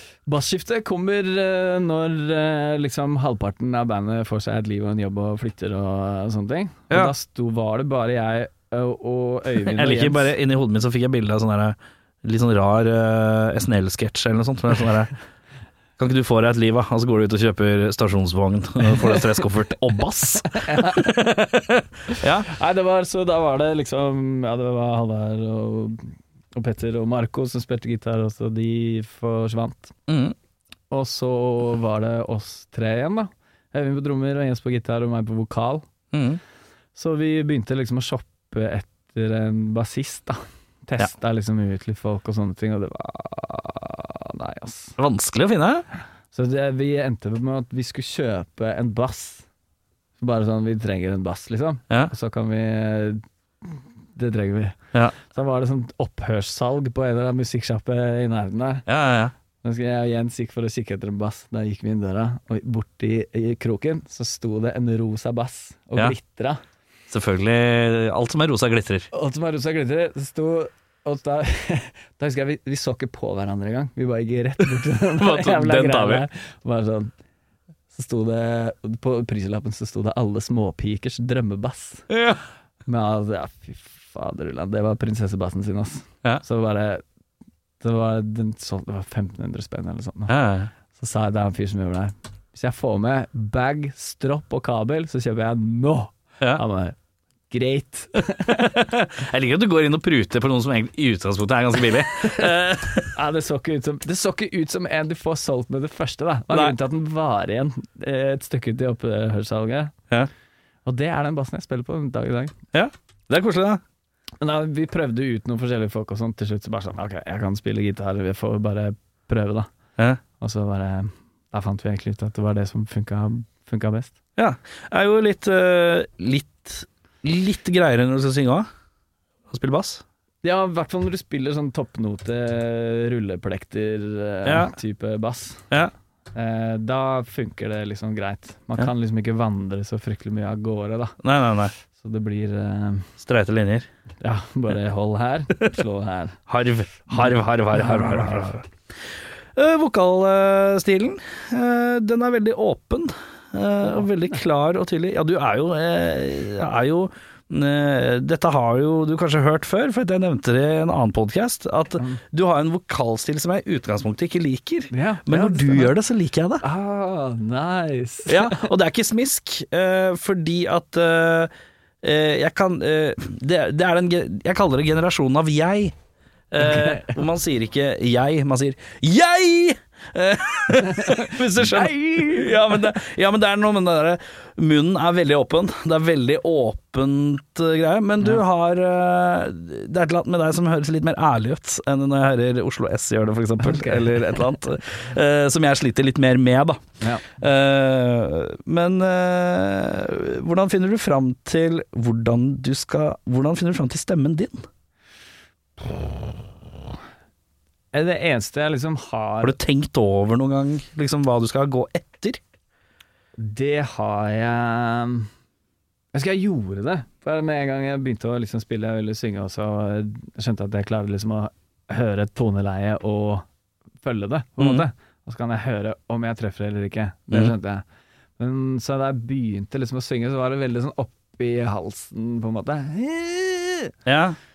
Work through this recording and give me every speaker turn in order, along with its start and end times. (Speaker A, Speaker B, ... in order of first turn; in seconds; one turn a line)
Speaker A: 0.3-10.3
Speaker B: 9.6-15.1
Speaker B: 16.0-22.5
Speaker A: 20.5-21.2
Speaker A: 22.1-29.9
Speaker B: 30.1-30.4
Speaker A: 30.9-35.8
Speaker B: 36.1-36.4
Speaker A: 36.9-45.0
Speaker B: 45.0-45.9
Speaker A: 46.3-49.5
Speaker A: 50.2-58.9
Speaker B: 58.9-59.3
Speaker A: 59.6-66.6
Speaker B: 67.1-69.1
Speaker A: 69.1-77.1
Speaker B: 74.6-76.2
Speaker A: 77.9-82.1
Speaker B: 82.1-82.4
Speaker A: 82.8-87.0
Speaker A: 87.8-90.3
Speaker B: 90.3-90.7
Speaker A: 90.9-97.0
Speaker A: 97.5-98.8
Speaker B: 98.4-103.1
Speaker A: 103.1-110.0
Speaker B: 106.5-106.8
Speaker A: 110.8-112.5
Speaker B: 112.7-113.8
Speaker A: 114.4-119.7
Speaker A: 120.4-124.1
Speaker B: 124.4-128.7
Speaker B: 129.5-130.0
Speaker A: 130.4-135.7
Speaker B: 134.4-134.7
Speaker A: 136.3-141.2
Speaker B: 141.2-141.7
Speaker A: 141.9-143.1
Speaker B: 143.2-143.9
Speaker A: 144.2-146.4
Speaker B: 146.5-148.6
Speaker A: 147.1-148.6
Speaker B: 149.5-166.6
Speaker A: 164.9-165.9
Speaker A: 166.6-168.7
Speaker B: 168.3-171.5
Speaker B: 172.0-175.9
Speaker B: 176.5-204.7
Speaker A: 176.6-177.2
Speaker A: 181.0-182.5
Speaker A: 193.6-194.1
Speaker A: 197.0-197.3
Speaker A: 207.9-209.6
Speaker B: 209.4-212.4
Speaker A: 213.4-215.3
Speaker A: 216.1-223.4
Speaker A: 224.0-227.8
Speaker B: 224.6-224.8
Speaker A: 228.4-233.9
Speaker B: 234.1-234.4